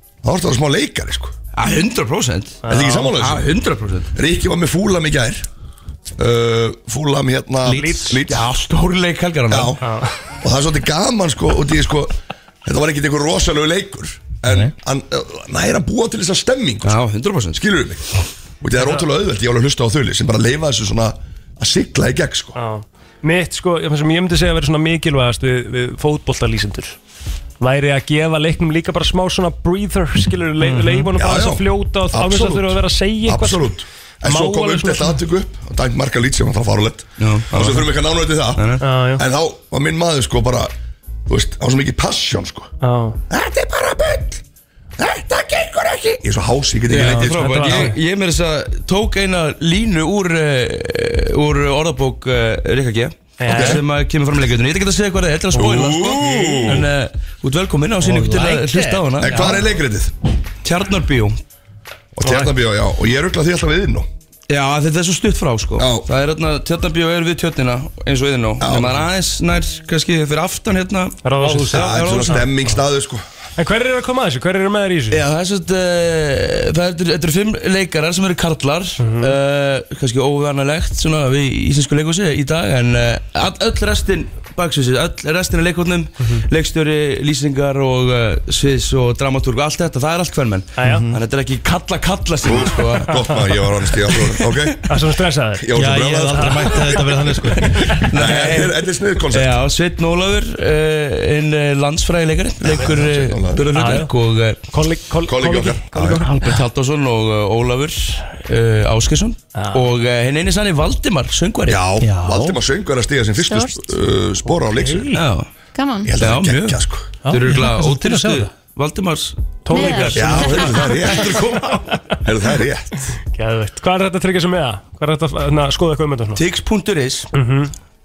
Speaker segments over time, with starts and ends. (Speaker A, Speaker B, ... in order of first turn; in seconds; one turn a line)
Speaker A: 0.2-1.3
Speaker B: 1.5-4.1
Speaker C: 2.6-3.1
Speaker A: 2.7-3.5
Speaker A: 4.2-5.5
Speaker A: 6.2-8.5
Speaker D: 7.7-8.2
Speaker C: 7.7-8.2
Speaker B: 8.3-9.8
Speaker A: 9.5-9.8
Speaker C: 9.8-10.1
Speaker A: 10.4-12.1
Speaker A: 12.6-16.9
Speaker D: 14.5-14.7
Speaker B: 16.8-17.7
Speaker A: 17.6-18.0
Speaker A: 18.6-22.6
Speaker C: 18.8-19.1
Speaker C: 22.6-27.0
Speaker C: 27.6-35.2
Speaker B: 30.7-31.0
Speaker A: 31.1-40.7
Speaker B: 37.2-37.9
Speaker B: 38.6-38.8
Speaker C: 38.8-39.2
Speaker A: 41.3-42.7
Speaker C: 42.8-43.2
Speaker A: 43.3-44.4
Speaker A: 45.0-47.9
Speaker B: 46.9-59.7
Speaker D: 47.0-47.3
Speaker C: 47.2-48.0
Speaker C: 53.4-53.8
Speaker A: 53.5-53.8
Speaker A: 55.5-56.9
Speaker D: 58.1-58.4
Speaker A: 59.2-60.1
Speaker C: 59.3-59.6
Speaker B: 60.6-61.4
Speaker A: 62.2-64.1
Speaker C: 62.2-62.5
Speaker B: 64.5-72.5
Speaker A: 65.8-66.1
Speaker A: 68.6-69.0
Speaker C: 71.2-72.8
Speaker D: 71.4-71.8
Speaker A: 71.7-73.2
Speaker C: 73.6-75.2
Speaker B: 75.1-93.4
Speaker C: 79.0-79.3
Speaker C: 90.8-91.1
Speaker D: 90.8-91.2
Speaker A: 92.5-95.0
Speaker B: 94.1-94.6
Speaker C: 94.8-97.2
Speaker A: 95.6-97.0
Speaker D: 95.7-97.9
Speaker B: 97.7-104.6
Speaker A: 98.0-99.5
Speaker A: 102.6-103.7
Speaker C: 103.7-104.1
Speaker C: 104.7-106.4
Speaker A: 105.3-106.2
Speaker B: 106.1-111.9
Speaker C: 109.5-109.9
Speaker A: 111.7-115.1
Speaker D: 112.0-112.6
Speaker E: 113.4-114.0
Speaker C: 114.5-115.2
Speaker B: 115.1-115.5
Speaker E: 115.7-116.1
Speaker A: 116.1-117.2
Speaker B: 116.1-121.9
Speaker D: 117.2-118.5
Speaker C: 119.7-121.5
Speaker E: 119.7-121.1
Speaker A: 120.2-121.6
Speaker A: 122.2-123.0
Speaker C: 123.3-126.4
Speaker B: 126.4-127.3
Speaker C: 127.3-127.7